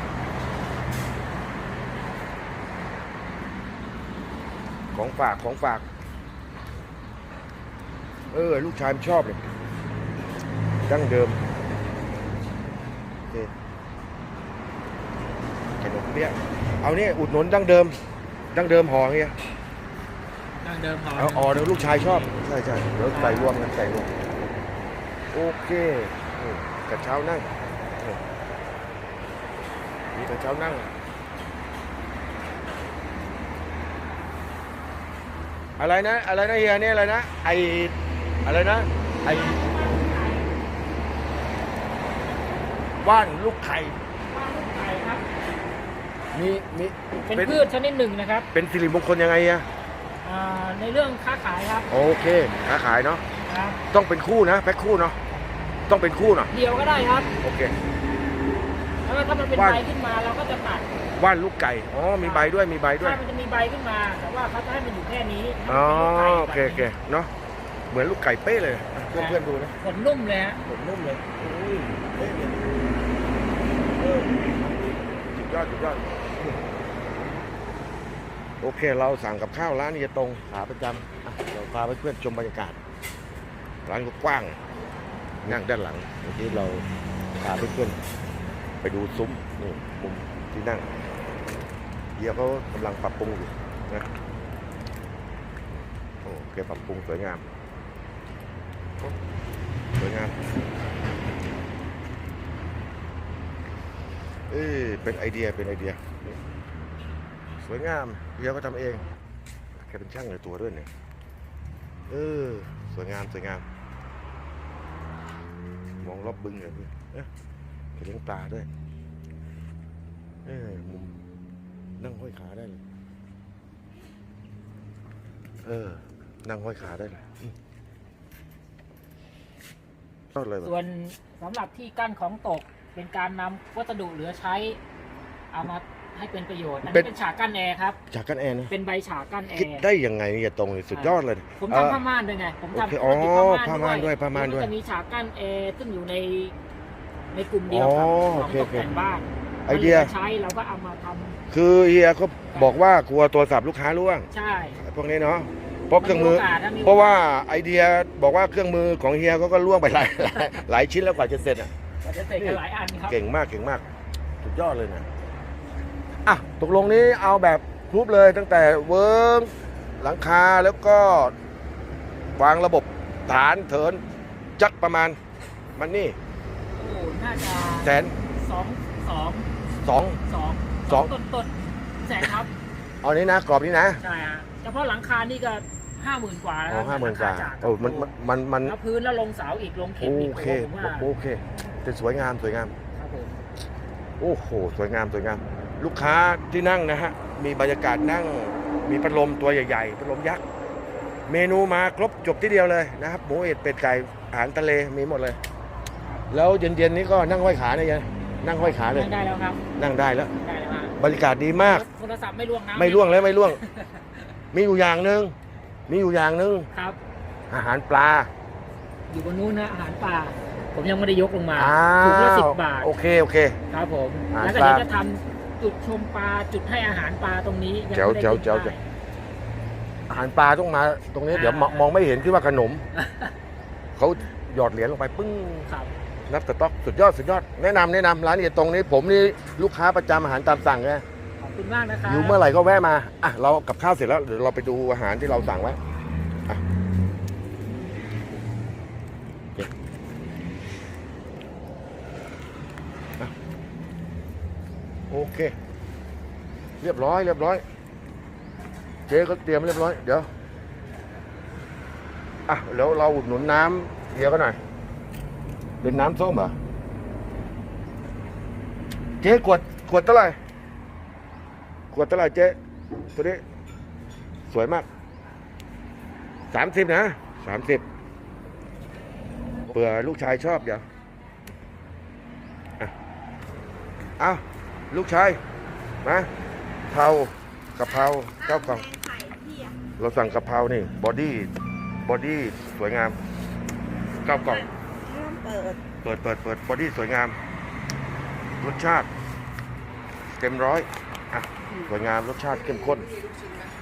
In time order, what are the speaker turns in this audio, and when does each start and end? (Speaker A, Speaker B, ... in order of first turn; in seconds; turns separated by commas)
Speaker A: 4.9-5.8, Speaker A: 8.3-9.4, Speaker A: 10.8-11.4, Speaker A: 15.8-18.0, Speaker A: 18.5-19.3, Speaker B: 20.6-22.3, Speaker A: 21.1-24.1, Speaker B: 23.1-23.5, Speaker A: 25.3-28.2, Speaker A: 30.1-30.9, Speaker A: 35.8-39.6, Speaker B: 39.3-40.5, Speaker A: 43.0-44.0, Speaker B: 44.3-45.2, Speaker A: 46.3-47.6, Speaker B: 47.3-48.5, Speaker A: 48.5-49.7, Speaker B: 50.2-51.9, Speaker A: 51.9-53.2, Speaker B: 53.5-53.8, Speaker A: 53.9-55.2, Speaker A: 55.9-56.5, Speaker B: 56.5-57.3, Speaker A: 57.4-57.7, Speaker B: 59.0-61.0, Speaker A: 59.5-59.8, Speaker A: 61.1-63.2, Speaker B: 62.2-66.9, Speaker A: 65.7-67.3, Speaker A: 67.9-69.7, Speaker B: 69.1-70.6, Speaker A: 70.6-72.7, Speaker A: 74.0-74.8, Speaker A: 75.3-76.6, Speaker A: 78.6-82.8, Speaker A: 83.8-84.6, Speaker A: 85.4-86.8, Speaker A: 87.4-88.0, Speaker A: 88.8-90.9, Speaker A: 92.2-94.1, Speaker A: 96.2-97.4, Speaker A: 100.0-100.3, Speaker A: 104.5-106.0, Speaker A: 107.6-109.0, Speaker A: 109.8-110.9, Speaker A: 112.1-113.6, Speaker A: 116.0-117.3, Speaker A: 118.0-118.7, Speaker A: 120.4-121.2, Speaker A: 122.0-122.8, Speaker A: 125.6-127.5, Speaker A: 130.3-130.7, Speaker B: 130.6-134.8, Speaker B: 135.5-138.0, Speaker A: 138.1-138.7, Speaker B: 138.7-139.9, Speaker A: 139.5-142.0, Speaker B: 140.9-146.6, Speaker A: 142.7-144.7, Speaker B: 147.3-151.4, Speaker A: 147.7-148.9, Speaker A: 149.7-150.1, Speaker A: 151.5-161.7, Speaker B: 152.5-152.8, Speaker B: 154.3-154.8, Speaker B: 156.0-157.2, Speaker B: 162.0-163.2, Speaker A: 162.3-163.8, Speaker A: 164.4-165.1, Speaker A: 166.2-171.3, Speaker A: 172.3-174.0, Speaker A: 174.6-175.2, Speaker A: 175.8-176.2, Speaker B: 176.7-179.5, Speaker A: 177.8-178.2, Speaker A: 179.8-180.2, Speaker B: 180.2-182.5, Speaker A: 180.9-181.1, Speaker A: 183.0-184.0, Speaker B: 184.0-188.1, Speaker A: 186.7-188.8, Speaker B: 188.6-191.1, Speaker A: 190.0-192.7, Speaker B: 192.9-193.4, Speaker A: 194.2-200.4, Speaker A: 201.3-205.4, Speaker A: 206.3-209.1, Speaker B: 208.6-209.6, Speaker A: 209.7-210.3, Speaker B: 210.3-211.0, Speaker A: 210.9-211.8, Speaker B: 211.5-214.1, Speaker A: 212.8-213.6, Speaker A: 214.5-215.3, Speaker A: 215.9-216.7, Speaker B: 216.7-217.0, Speaker A: 217.5-218.3, Speaker B: 219.1-222.9, Speaker A: 221.5-223.6, Speaker B: 223.7-228.8, Speaker A: 224.3-224.9, Speaker A: 227.9-228.8, Speaker A: 230.1-232.8, Speaker B: 231.3-231.9, Speaker B: 232.9-233.3, Speaker A: 233.9-235.7, Speaker B: 235.7-235.9, Speaker A: 236.3-241.0, Speaker B: 241.4-242.4, Speaker A: 242.1-245.8, Speaker A: 255.1-255.5, Speaker A: 256.8-257.6, Speaker A: 259.1-260.3, Speaker A: 262.5-264.6, Speaker A: 265.8-266.6, Speaker A: 269.2-270.4, Speaker A: 271.9-272.6, Speaker A: 273.1-273.4, Speaker A: 274.5-274.9, Speaker A: 276.5-277.8, Speaker A: 279.7-280.8, Speaker A: 284.2-285.4, Speaker A: 286.0-286.3, Speaker A: 286.9-288.9, Speaker C: 287.9-289.8, Speaker A: 290.0-291.5, Speaker A: 292.0-293.2, Speaker A: 294.2-294.7, Speaker C: 294.3-295.8, Speaker A: 295.9-297.4, Speaker A: 298.6-299.1, Speaker A: 300.4-303.1